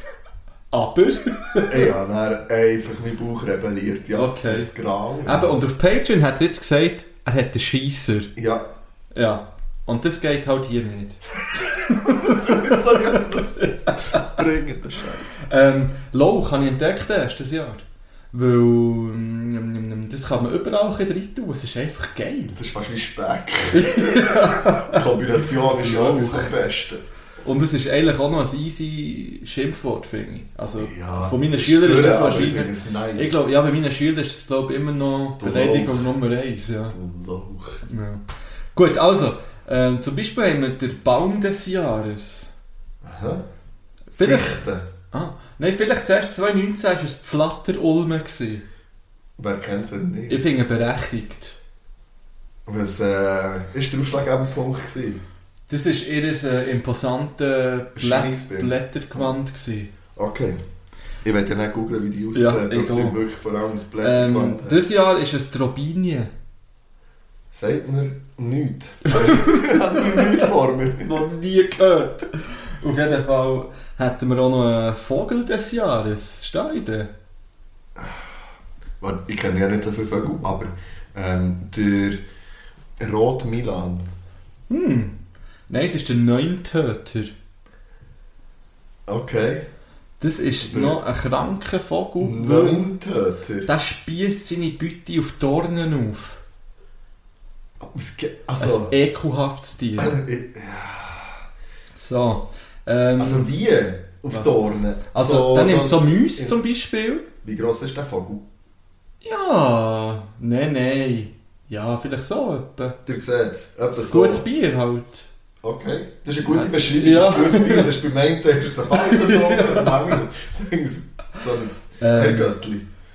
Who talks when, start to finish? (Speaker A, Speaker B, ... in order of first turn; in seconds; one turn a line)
Speaker A: 0.7-1.9
Speaker B: 1.7-5.6
Speaker A: 4.1-4.7
Speaker A: 5.2-8.3
Speaker B: 8.3-8.7
Speaker A: 9.1-14.4
Speaker B: 12.0-15.3
Speaker A: 15.4-22.6
Speaker B: 22.5-27.0
Speaker A: 23.7-25.0
Speaker A: 25.6-26.5
Speaker A: 27.4-37.0
Speaker B: 30.7-33.4
Speaker B: 35.4-36.1
Speaker B: 36.9-37.8
Speaker A: 37.9-38.2
Speaker A: 38.7-42.5
Speaker B: 43.0-43.4
Speaker A: 44.1-48.6
Speaker B: 44.2-44.9
Speaker B: 49.4-50.4
Speaker A: 50.3-51.6
Speaker B: 52.6-55.2
Speaker A: 55.7-59.9
Speaker B: 58.0-59.3
Speaker B: 60.1-60.6
Speaker B: 61.2-64.8
Speaker A: 62.3-63.2
Speaker A: 64.0-66.3
Speaker B: 67.5-71.2
Speaker A: 69.1-70.3
Speaker A: 71.0-77.1
Speaker B: 78.0-78.3
Speaker B: 79.0-82.2
Speaker B: 83.0-84.1
Speaker A: 84.7-87.3
Speaker B: 89.1-89.7
Speaker A: 90.2-92.8
Speaker B: 90.6-91.0
Speaker B: 92.2-93.7
Speaker A: 93.6-96.4
Speaker B: 97.8-98.9
Speaker A: 98.6-100.2
Speaker B: 100.0-101.4
Speaker A: 101.9-103.5
Speaker B: 103.2-106.6
Speaker A: 104.3-107.2
Speaker B: 107.4-108.5
Speaker A: 109.2-113.0
Speaker B: 113.0-114.5
Speaker A: 113.9-115.3
Speaker B: 115.6-122.9
Speaker A: 116.5-118.0
Speaker A: 118.9-120.2
Speaker A: 122.0-122.5